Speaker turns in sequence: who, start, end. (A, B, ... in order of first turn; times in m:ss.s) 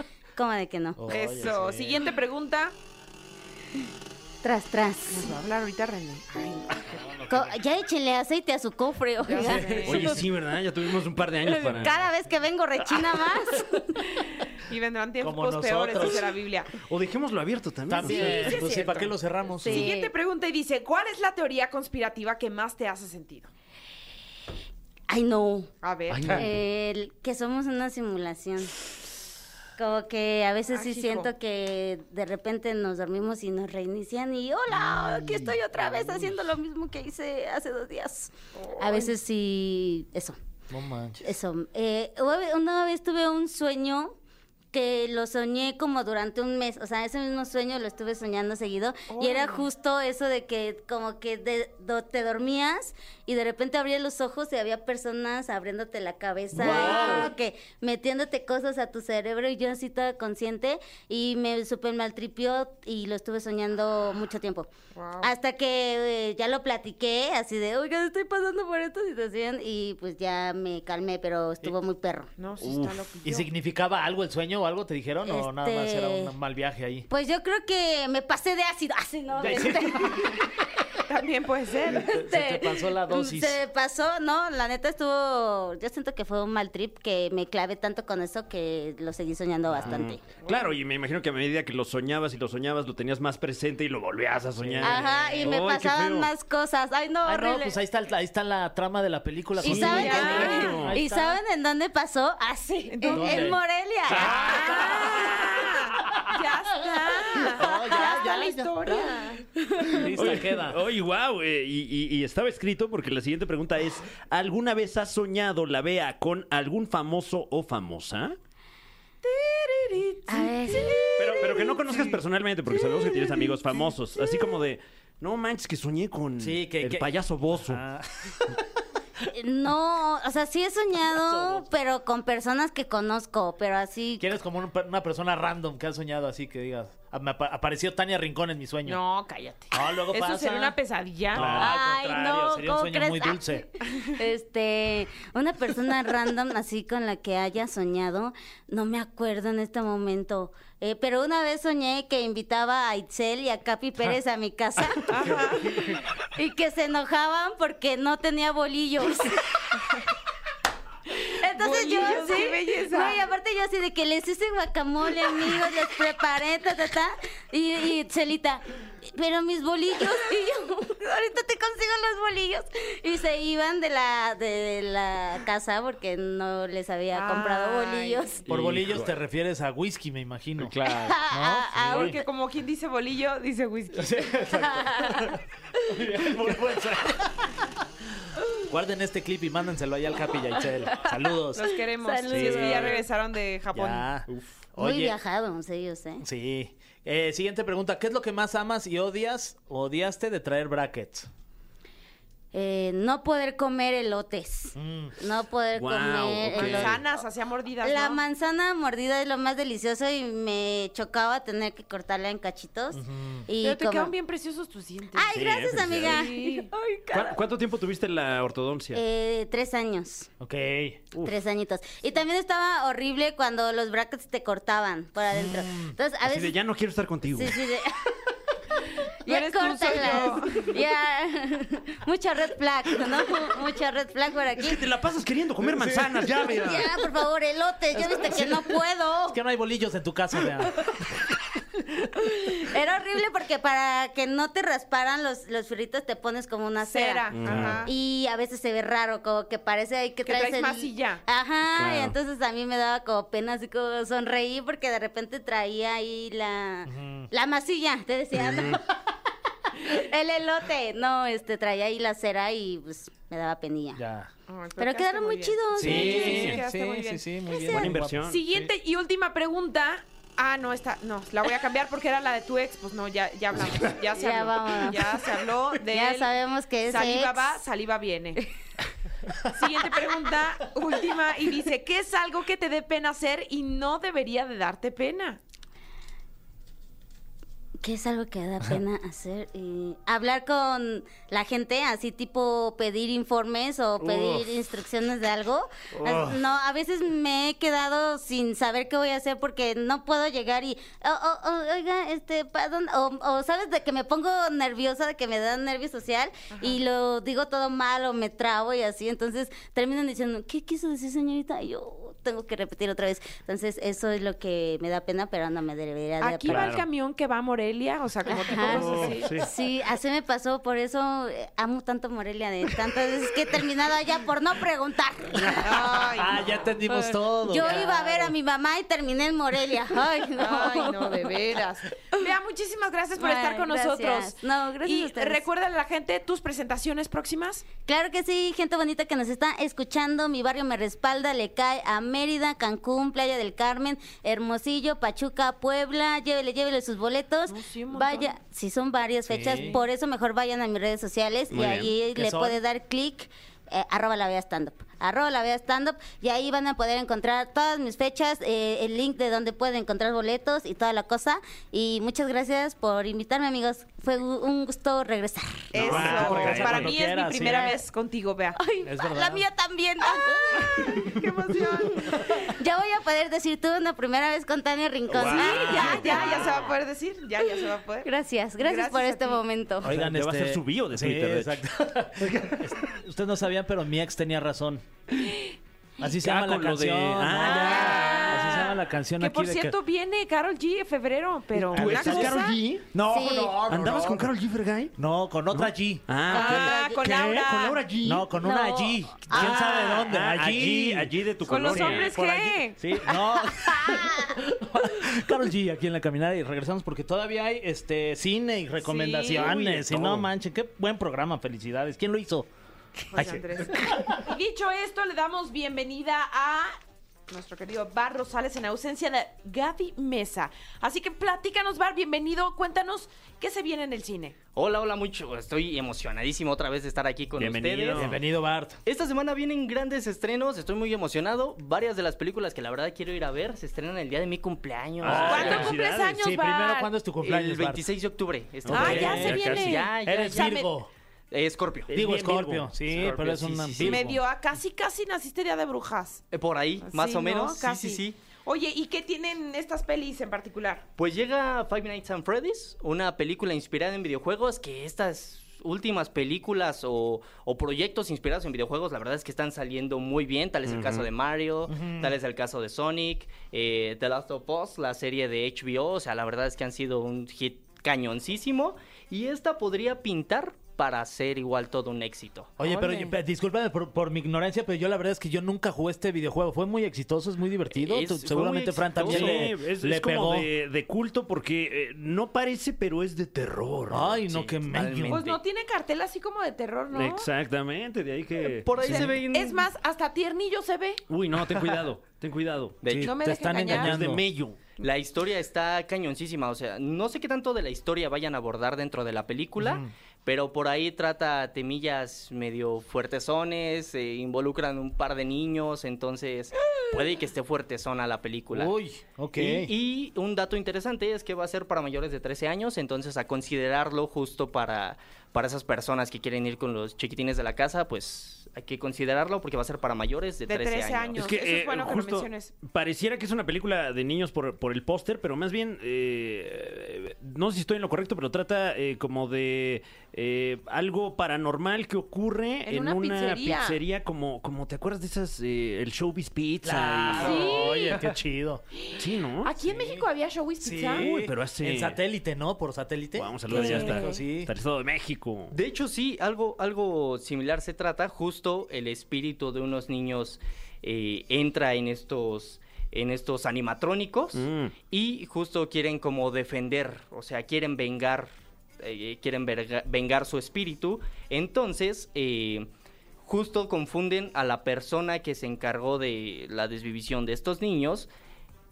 0:00.4-0:01.0 A
0:01.0-0:02.0 B
0:01.1-0:02.7 C
0:04.4-0:05.3 A
0:05.1-0:07.0 C
0:06.9-0:07.6 B
0:07.3-0:10.2 A
0:09.2-0:10.1 C
0:09.4-0:10.2 B
0:09.8-0:12.0 D
0:11.5-0:14.0 A
0:12.9-0:13.2 D
0:14.6-0:16.7 C
0:15.2-0:16.3 B
0:16.8-0:18.6 D
0:17.9-0:19.9 B
0:18.0-0:19.0 A
0:18.2-0:18.9 C
0:19.6-0:20.1 A
0:19.6-0:23.5 C
0:25.1-0:25.7 A
0:25.8-0:26.3 C
0:26.1-0:26.5 D
0:26.2-0:26.4 B
0:26.3-0:28.7 A
0:29.8-0:40.4 A
0:30.7-0:31.3 C
0:38.5-0:39.1 C
0:40.7-0:41.2 B
0:41.2-0:44.2 A
0:44.7-1:12.3 A
0:49.1-0:49.6 C
0:56.6-0:57.3 D
0:56.7-0:57.2 C
0:56.7-0:57.3 B
1:04.9-1:05.3 C
1:12.4-1:13.5 C
1:12.6-1:13.0 D
1:13.2-1:17.1 B
1:15.2-1:16.3 A
1:17.1-1:20.6 A
1:19.4-1:20.5 B
1:21.0-1:22.1 C
1:21.9-1:23.6 B
1:21.9-1:30.2 A
1:29.8-1:36.3 D
1:30.4-1:30.7 C
1:34.6-1:35.1 B
1:34.8-1:37.8 A
1:37.2-1:41.4 B
1:39.6-1:45.2 A
1:39.6-1:41.0 D
1:39.7-1:40.8 C
1:42.9-1:43.5 C
1:43.1-1:45.4 B
1:44.1-1:49.4 C
1:44.1-1:46.3 D
1:47.5-1:49.0 B
1:47.6-1:48.1 A
1:49.5-1:50.2 A
1:49.8-1:50.8 B
1:50.0-1:58.4 D
1:59.2-2:01.6 C
2:00.3-2:01.7 A
2:01.2-2:07.8 D
2:06.4-2:08.6 B
2:09.3-2:14.3 A
2:11.0-2:11.7 B
2:14.2-2:19.0 B
2:18.8-2:21.6 C
2:19.7-2:20.8 B
2:21.3-2:23.6 B
2:21.3-2:21.7 D
2:21.5-2:39.4 A
2:35.1-2:35.9 C
2:41.4-2:58.4 A
2:41.4-2:43.2 C
2:57.1-2:58.3 C
2:58.5-2:59.2 D
2:58.5-3:02.2 B
3:00.6-3:01.2 D
3:00.9-3:02.2 A
3:01.8-3:04.6 C
3:03.9-3:07.7 B
3:04.7-3:05.2 A
3:08.6-3:11.7 B
3:11.5-3:14.1 C
3:12.0-3:13.0 A
3:12.3-3:13.0 B
3:12.3-3:12.9 D
3:13.7-3:15.2 B
3:14.8-3:16.2 A
3:16.2-3:21.3 B
3:22.5-3:27.0 A
3:24.7-3:25.2 B
3:25.7-3:27.0 D
3:26.6-3:28.2 C
3:27.8-3:34.1 A
3:32.9-3:33.5 B
3:33.6-3:35.3 C
3:35.1-3:37.4 A
3:35.3-3:36.2 D
3:36.0-3:36.7 C
3:37.1-3:39.0 D
3:38.9-3:40.3 A
3:40.4-3:41.1 B
3:41.1-3:46.5 A
3:45.3-3:46.0 B
3:46.2-3:47.6 D
3:47.3-3:48.1 A
3:49.1-3:50.8 C
3:49.2-3:54.8 A
3:54.6-3:57.0 D
3:55.6-3:56.7 B
3:56.5-3:59.4 A
3:57.9-4:00.9 B
4:02.1-4:18.8 A
4:06.8-4:07.9 C
4:07.3-4:07.9 D
4:07.5-4:07.7 B
4:10.2-4:11.2 C
4:11.7-4:12.2 D
4:16.8-4:17.3 B
4:18.4-4:18.8 D
4:19.8-4:24.0 A
4:24.0-4:24.3 B
4:24.5-4:27.2 C
4:24.8-4:26.6 A
4:25.8-4:28.7 B
4:25.8-4:26.6 D
4:27.5-4:27.9 A
4:27.7-4:28.4 D
4:28.2-4:36.3 C
4:34.1-4:35.2 A
4:35.9-4:37.6 A
4:36.9-4:38.4 C
4:39.4-4:45.4 C
4:47.8-5:16.7 A
4:54.0-4:54.5 D
4:56.0-4:56.3 D
4:56.0-4:56.4 B
5:06.5-5:06.8 C
5:16.2-5:19.3 C
5:16.4-5:16.8 D
5:18.3-5:26.0 A
5:18.6-5:19.4 D
5:18.8-5:19.1 B
5:25.5-5:26.6 C
5:25.7-5:28.3 B
5:27.3-5:31.4 A
5:30.4-5:37.6 C
5:33.2-5:35.4 A
5:37.8-6:05.7 A
5:47.5-5:48.3 C
5:49.2-5:49.8 B
5:49.5-5:49.8 C
5:51.5-5:51.9 D
5:52.1-5:52.6 B
6:05.7-6:06.9 D
6:05.7-6:08.6 C
6:05.8-6:07.8 B
6:08.6-6:16.4 A
6:08.8-6:09.4 B
6:10.1-6:12.5 C
6:15.1-6:16.7 D
6:15.2-6:19.4 C
6:17.6-6:19.9 A
6:19.8-6:24.8 B
6:19.8-6:21.6 D
6:22.2-6:22.8 D
6:25.2-6:25.6 C
6:26.0-6:29.8 B
6:26.2-6:28.6 D
6:27.4-6:32.6 C
6:31.6-6:32.8 D
6:31.6-6:34.3 B
6:33.1-6:33.6 A
6:33.7-6:34.9 D
6:35.0-6:36.5 B
6:35.5-6:38.3 D
6:36.3-6:37.8 C
6:36.3-6:37.0 A
6:38.0-6:52.5 B
6:38.4-6:39.6 A
6:39.3-6:42.1 D
6:41.5-6:44.2 C
6:48.8-6:49.5 C
6:49.3-6:50.3 D
6:53.0-6:56.8 C
6:53.1-6:54.3 B
6:57.3-7:04.4 C
7:04.6-7:08.2 E
7:07.4-7:08.2 D
7:07.9-7:08.8 B
7:08.8-7:15.7 E
7:15.0-7:16.4 D
7:15.0-7:17.8 B
7:15.2-7:16.9 C
7:17.2-7:20.6 E
7:18.6-7:19.4 B
7:18.6-7:19.9 D
7:18.7-7:20.7 C
7:20.0-7:20.9 B
7:21.3-7:21.9 E
7:21.9-7:22.7 D
7:21.9-7:24.2 B
7:22.9-7:24.0 E
7:23.8-7:26.2 C
7:26.3-7:28.2 E
7:26.8-7:30.8 C
7:31.0-7:52.6 E
7:40.6-7:41.1 D
7:41.7-7:42.1 B
7:52.6-8:00.5 B
7:52.6-7:53.2 C
7:57.7-7:59.5 E
7:59.0-8:04.4 D
8:03.9-8:05.2 B
8:04.3-8:05.4 E
8:05.0-8:07.3 C
8:06.9-8:09.1 D
8:08.6-8:09.7 E
8:08.8-8:09.1 B
8:08.9-8:11.0 C
8:11.1-8:12.8 D
8:12.8-8:13.5 E
8:12.8-8:14.2 B
8:13.0-8:14.0 C
8:13.6-8:14.6 D
8:14.8-8:28.7 E
8:19.6-8:19.9 B
8:28.5-8:29.7 B
8:29.3-8:41.2 E
8:40.5-8:42.5 C
8:41.1-8:57.6 D
8:52.6-8:53.8 C
8:56.6-8:58.6 B
8:57.1-8:58.0 C
8:58.8-9:01.1 C
8:58.9-8:59.6 D
8:59.6-9:00.0 B
9:00.6-9:04.5 B
9:00.9-9:02.0 D
9:03.2-9:05.6 D
9:03.5-9:04.2 C
9:05.5-9:22.7 E
9:14.3-9:14.7 D
9:23.2-9:28.1 E